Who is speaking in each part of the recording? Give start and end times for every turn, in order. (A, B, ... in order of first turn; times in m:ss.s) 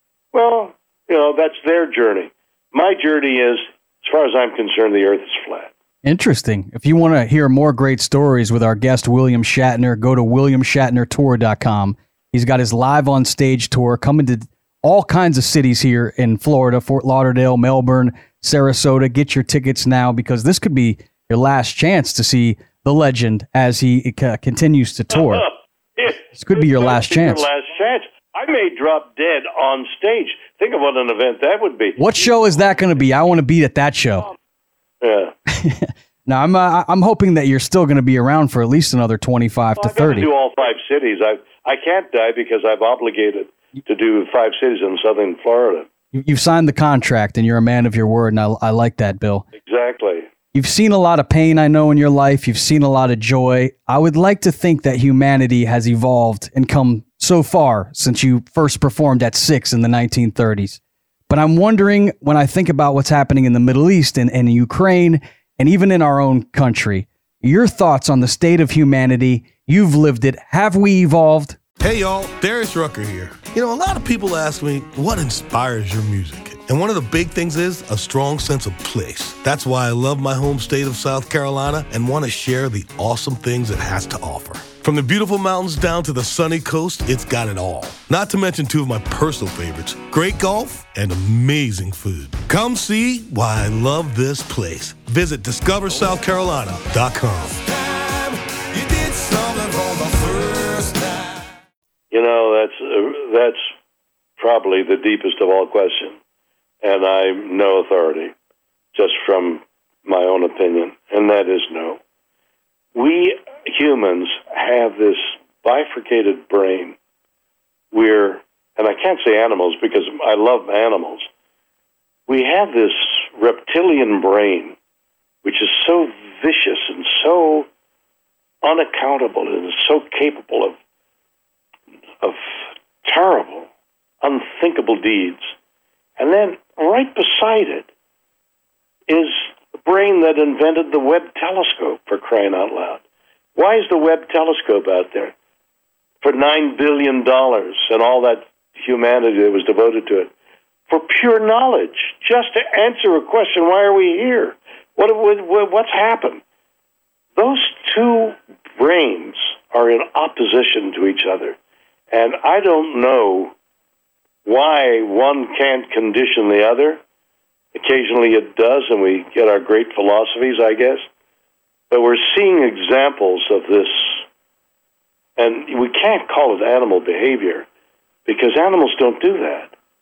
0:00.3-0:05.7 A
0:06.0-0:25.4 B
0:25.1-0:32.2 A
0:26.4-0:27.5 B
0:32.0-0:34.3 B
0:35.0-0:35.3 A
0:35.5-0:40.3 B
0:39.8-0:45.9 A
0:46.1-0:49.4 B
0:49.5-0:50.3 A
0:50.5-1:11.6 B
1:11.8-1:37.7 C
1:42.1-1:43.7 A
1:44.4-1:46.2 A
1:46.8-1:48.3 A
1:48.9-1:52.0 A
1:53.0-1:57.0 A
1:57.9-2:01.3 A
2:02.3-2:04.8 A
2:05.4-2:07.7 A
2:08.6-2:10.8 A
2:12.2-2:12.5 A
2:13.0-2:13.7 A
2:14.2-2:15.5 A
2:16.2-2:17.9 A
2:19.1-2:23.0 A
2:23.6-2:25.3 A
2:26.2-2:30.3 A
2:30.9-2:36.4 A
2:37.4-2:41.6 A
2:42.1-2:43.5 A
2:44.4-2:47.0 A
2:47.8-2:51.0 A
2:51.9-2:54.2 A
2:55.4-2:57.7 A
2:58.3-2:59.7 A